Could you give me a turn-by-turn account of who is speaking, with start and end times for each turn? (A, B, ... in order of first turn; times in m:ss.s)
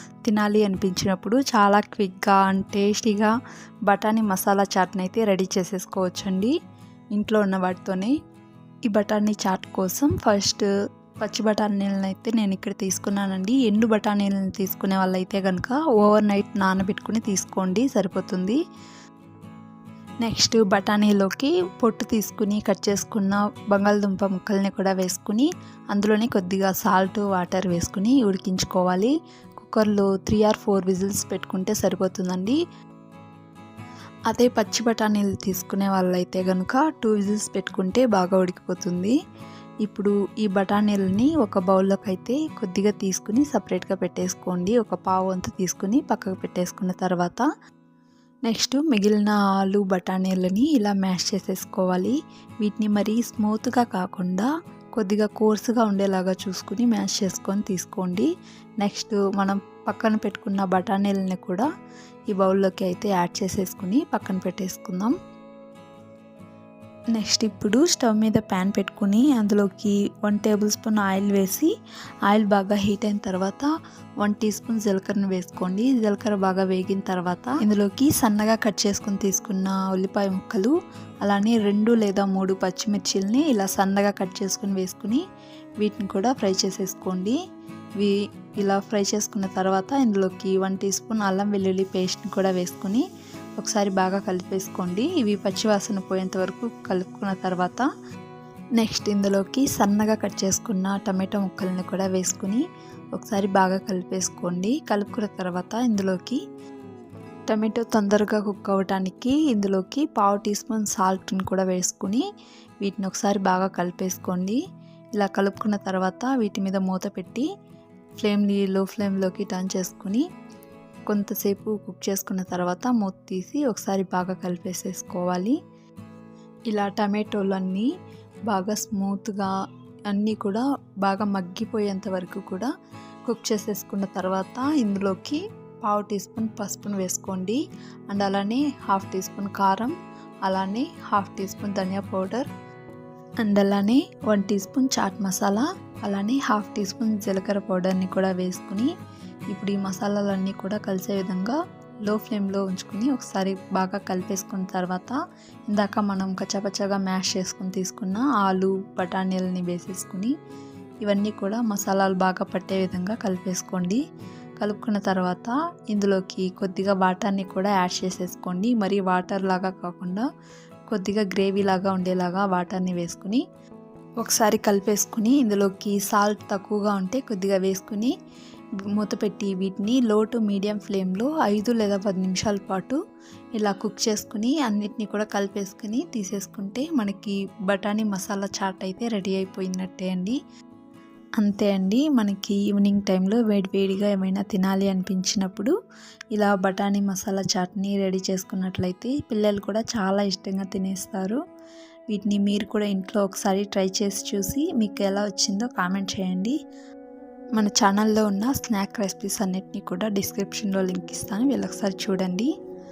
0:00.2-0:03.3 A
0:03.9-0:06.5 A
0:07.1-0:08.1 A
0:08.9-0:10.6 A
0:11.2-0:18.6 A
0:20.2-0:32.6 A
0:34.3-0:39.1 A
0:39.8-0:47.4 A
0:48.5-0:58.3 A
0:58.8-1:01.7 A
1:02.3-1:05.1 A
1:07.1-1:11.7 A
1:12.3-1:13.7 A
1:14.2-1:25.2 A
1:25.8-1:27.4 A
1:28.0-1:33.0 A
1:33.6-1:37.8 A
1:38.8-1:42.6 A
1:43.1-1:46.4 A
1:47.5-1:52.2 A
1:52.8-1:54.6 A
1:55.2-1:57.4 A
1:58.2-2:00.2 A
2:01.1-2:05.5 A
2:06.7-2:07.9 A
2:08.5-2:09.5 A
2:10.1-2:12.7 A
2:13.3-2:17.6 A
2:18.1-2:19.9 A
2:20.4-2:22.5 A
2:23.4-2:28.9 A
2:29.5-2:35.2 A
2:35.7-2:40.3 A
2:41.0-2:44.0 A
2:44.6-2:50.2 A
2:50.9-2:53.4 A
2:54.2-2:58.1 A
2:58.9-3:03.0 A
3:03.6-3:10.4 A
3:11.4-3:15.7 A
3:16.3-3:21.4 A
3:22.1-3:26.6 A
3:27.6-3:32.5 A